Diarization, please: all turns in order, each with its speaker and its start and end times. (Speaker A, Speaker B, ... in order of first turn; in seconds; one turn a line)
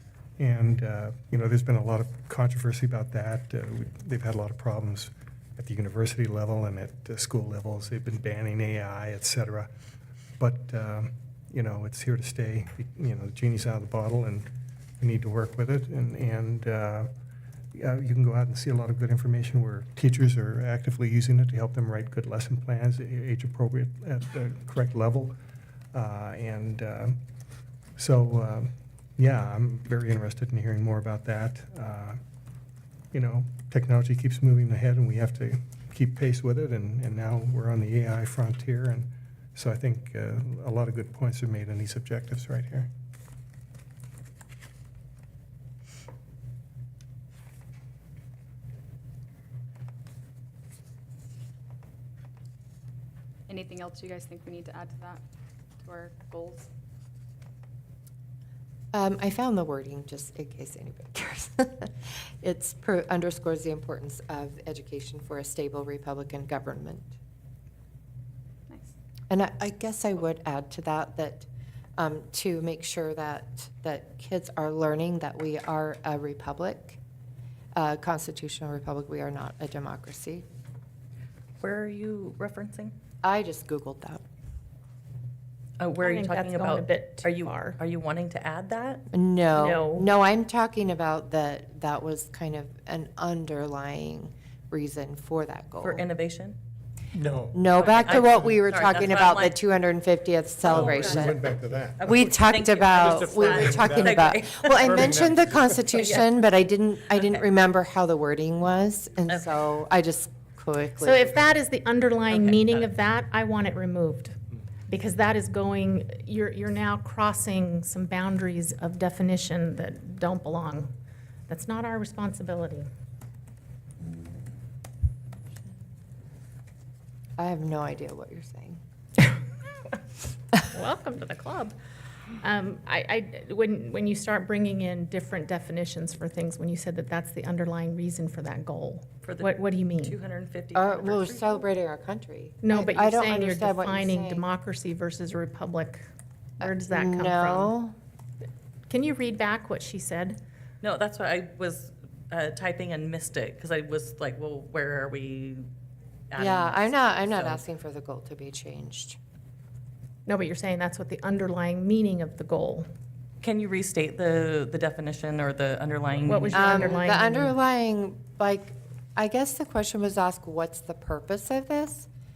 Speaker A: 0.4-9.7
Speaker A: 10.4-14.5
Speaker A: 15.0-17.1
Speaker A: 17.8-25.3
Speaker A: 25.9-27.2
Speaker A: 28.0-32.2
Speaker A: 33.1-42.9
Speaker B: 53.5-55.2
Speaker B: 55.8-56.7
Speaker C: 58.9-67.1
Speaker B: 68.7-68.9
Speaker C: 69.3-77.0
Speaker C: 77.8-80.4
Speaker D: 81.6-82.9
Speaker C: 83.2-84.2
Speaker D: 85.8-89.0
Speaker E: 86.0-87.8
Speaker C: 89.1-96.0
Speaker E: 89.5-90.1
Speaker D: 95.8-96.6
Speaker A: 97.1-97.6
Speaker C: 97.5-101.5
Speaker D: 97.7-99.5
Speaker D: 100.6-106.1
Speaker A: 100.7-101.9
Speaker C: 102.0-111.4
Speaker D: 107.1-107.4
Speaker E: 111.0-114.3
Speaker D: 112.3-112.8
Speaker E: 114.9-120.9
Speaker E: 121.5-122.9
Speaker C: 127.4-128.8
Speaker E: 130.6-131.7
Speaker E: 132.4-140.2
Speaker D: 139.2-141.6
Speaker C: 140.7-144.4
Speaker E: 142.6-146.0
Speaker E: 146.6-147.7
Speaker C: 146.6-147.9
Speaker E: 148.9-150.4
Speaker D: 150.8-155.7
Speaker D: 156.3-157.6
Speaker C: 156.4-159.2
Speaker E: 160.2-162.8
Speaker D: 163.4-167.0
Speaker E: 166.2-167.5
Speaker C: 166.5-172.1